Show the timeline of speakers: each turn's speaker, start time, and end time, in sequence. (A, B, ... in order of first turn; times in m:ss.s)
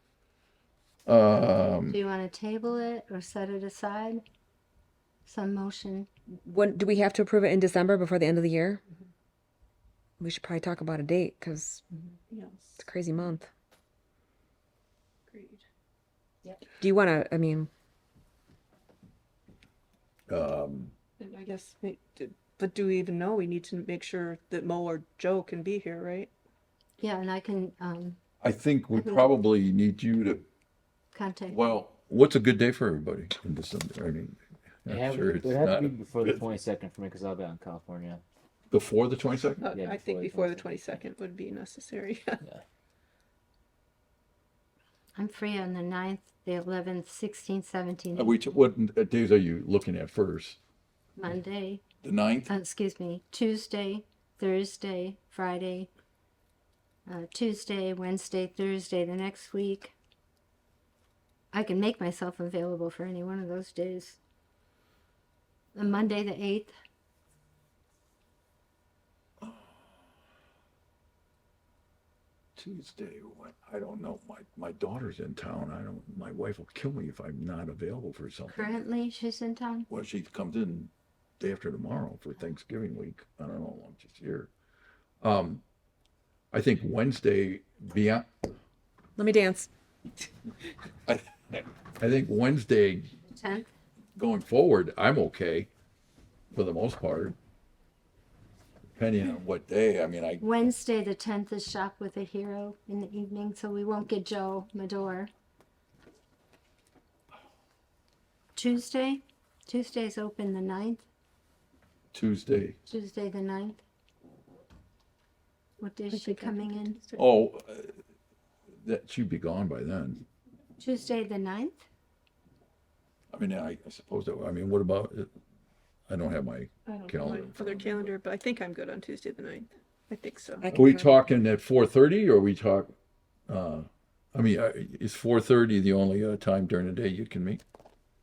0:01.0-0:02.0 A
0:01.9-0:04.2 B
0:05.2-0:06.1 B
0:06.4-0:08.8 C
0:10.2-0:11.8 C
0:12.3-0:12.8 D
0:12.8-0:13.5 C
0:15.3-0:15.6 D
0:16.8-0:17.7 C
0:20.3-0:20.9 A
0:21.2-0:26.3 D
0:27.0-0:28.2 B
0:28.4-0:30.4 A
0:29.0-0:29.3 B
0:31.1-0:31.6 B
0:31.5-0:36.4 A
0:34.9-0:38.2 E
0:38.7-0:39.6 A
0:39.6-0:42.4 D
0:39.7-0:41.0 E
0:45.2-0:48.3 B
0:48.1-0:50.6 A
0:51.2-0:51.8 B
0:52.0-0:52.5 A
0:52.5-0:55.9 B
0:57.0-0:59.9 B
1:01.5-1:04.2 B
1:05.8-1:06.7 B
1:09.4-1:09.7 A
1:12.6-1:18.8 A
1:18.5-1:19.9 B
1:19.9-1:24.5 A
1:25.2-1:25.6 A
1:26.5-1:28.3 A
1:29.2-1:29.7 C
1:31.1-1:33.1 A
1:33.3-1:33.7 B
1:34.2-1:35.7 A
1:36.5-1:37.4 A
1:39.0-1:40.5 A
1:40.4-1:45.3 B
1:48.6-1:51.0 B
1:52.1-1:52.8 A
1:52.9-1:53.8 B
1:55.8-1:57.0 B
1:56.1-1:57.2 D
1:57.2-1:57.9 A
1:58.8-2:00.2 A
2:00.8-2:01.8 B
2:03.3-2:05.3 A
2:06.1-2:08.1 A
2:06.9-2:10.6 D
2:10.6-2:11.2 C
2:10.7-2:12.9 A
2:13.5-2:17.6 A